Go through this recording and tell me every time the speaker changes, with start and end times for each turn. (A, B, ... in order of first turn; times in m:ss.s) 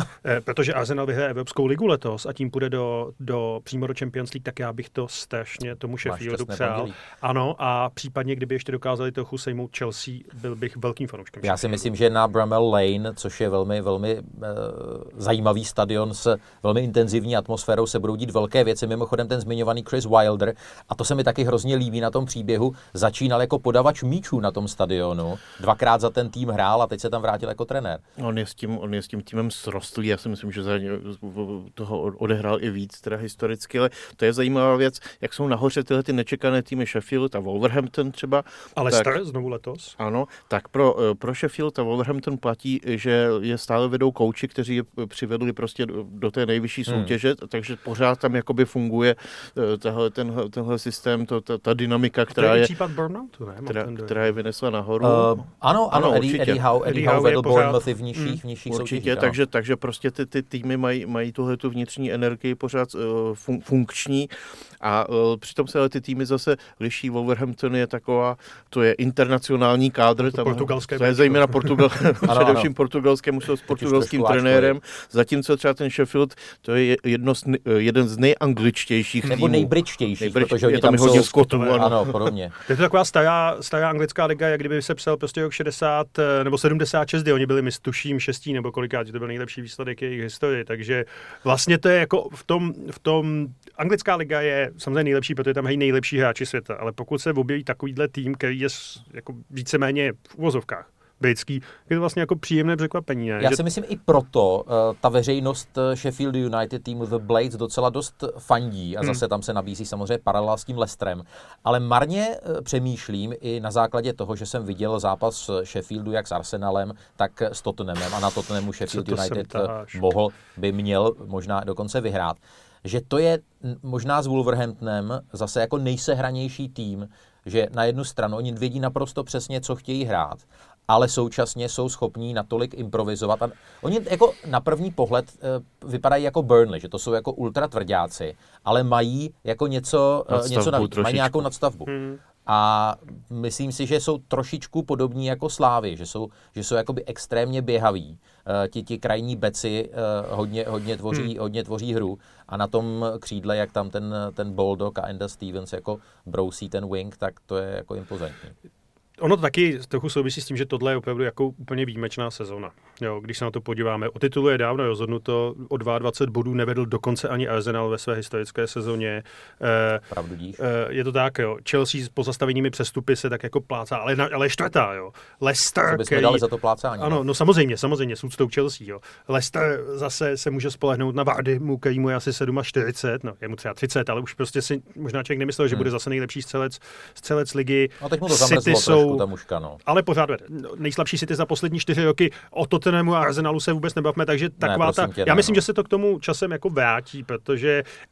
0:00.2-0:11.9 A
0:06.0-0:07.0 B
0:11.4-0:28.0 B
0:28.2-0:39.2 C
0:38.8-0:40.0 A
0:40.0-0:52.7 C
0:46.9-0:47.2 B
0:52.3-0:54.3 A
0:53.7-0:56.6 C
0:55.0-0:59.4 B
0:56.8-0:58.4 A
0:58.7-1:22.3 C
1:10.3-1:11.8 A
1:12.3-1:12.7 B
1:13.7-1:14.8 B
1:19.3-1:22.5 B
1:21.0-1:21.9 A
1:22.6-1:43.6 A
1:43.4-2:21.9 B
1:58.9-2:00.0 A
2:20.3-2:21.5 C
2:21.9-2:22.2 A
2:22.5-2:38.5 B
2:39.2-2:50.1 A
2:50.1-2:50.6 B
2:50.6-2:56.4 A
2:55.9-2:57.2 B
2:57.0-3:09.3 A
3:08.0-3:09.8 B
3:09.9-3:17.9 A
3:14.6-3:15.6 B